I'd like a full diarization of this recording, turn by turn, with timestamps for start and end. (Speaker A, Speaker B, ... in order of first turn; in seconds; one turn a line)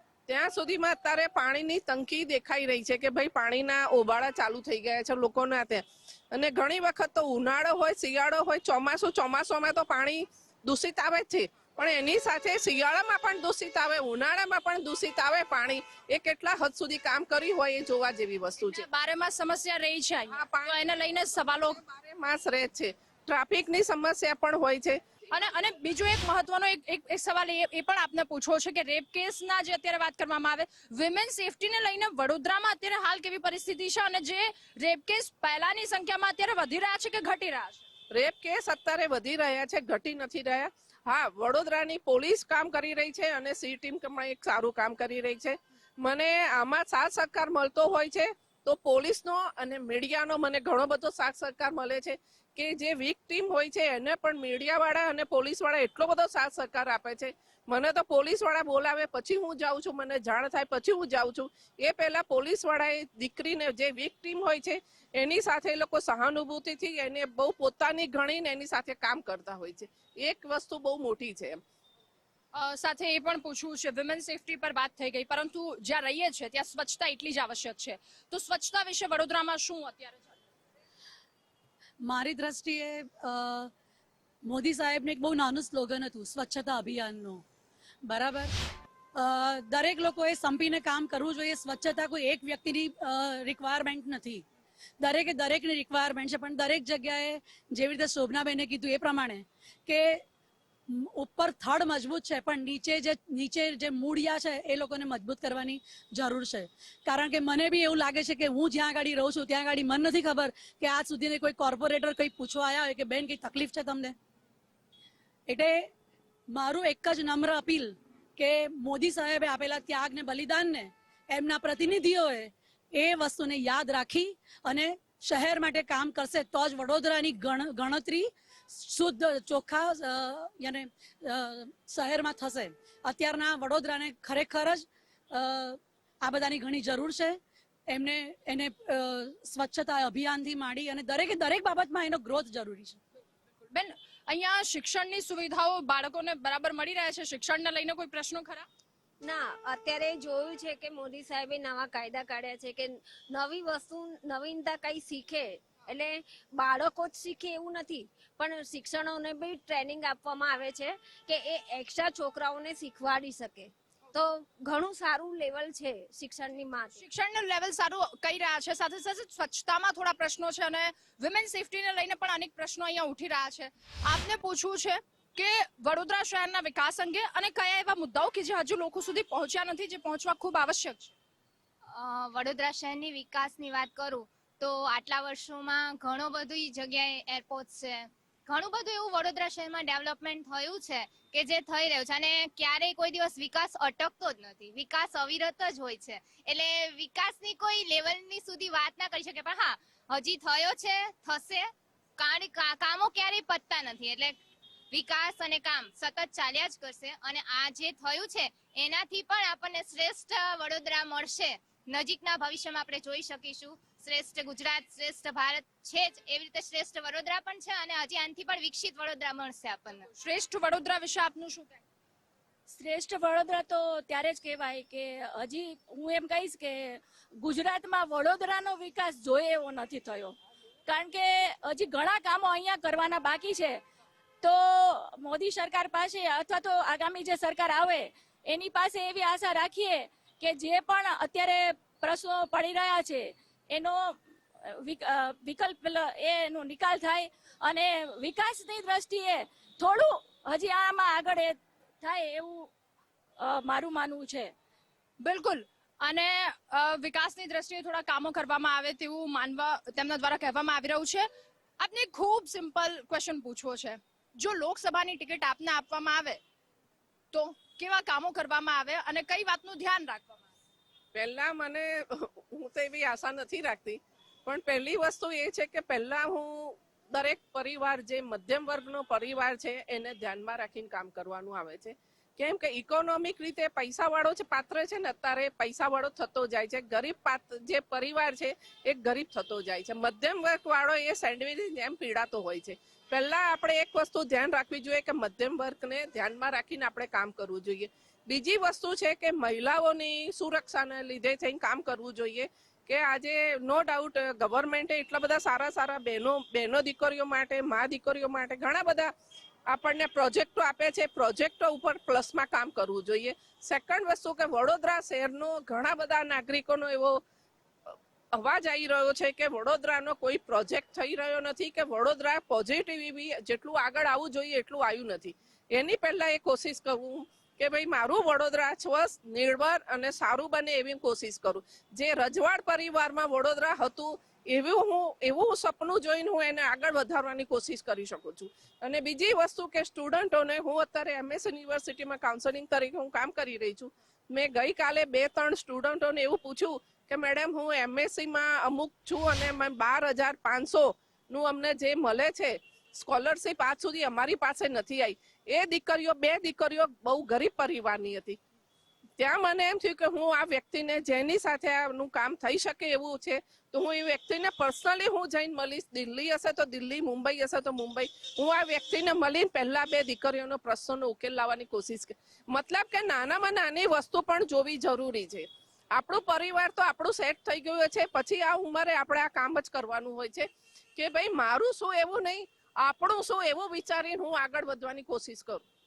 Speaker A: 0.3-18.8
Speaker B: 18.6-21.8
Speaker A: 20.3-20.8
Speaker A: 21.8-25.0
Speaker B: 25.3-37.8
Speaker A: 38.1-71.6
Speaker B: 72.5-80.4
Speaker C: 82.0-83.7
Speaker C: 84.5-87.4
Speaker C: 88.1-88.5
Speaker C: 89.2-94.5
Speaker C: 95.0-100.2
Speaker C: 100.9-114.2
Speaker C: 115.5-115.9
Speaker C: 116.5-137.4
Speaker C: 137.9-143.0
Speaker B: 143.7-148.7
Speaker D: 149.2-167.0
Speaker B: 167.0-181.2
Speaker E: 181.9-201.7
Speaker E: 202.2-204.4
Speaker E: 204.9-220.1
Speaker B: 220.1-221.8
Speaker F: 222.7-230.3
Speaker F: 230.9-233.8
Speaker F: 234.4-252.7
Speaker F: 253.4-254.5
Speaker B: 255.2-261.3
Speaker B: 261.8-266.4
Speaker B: 267.3-270.5
Speaker A: 271.1-309.1
Speaker A: 309.7-317.2
Speaker A: 317.9-358.4
Speaker A: 359.2-385.6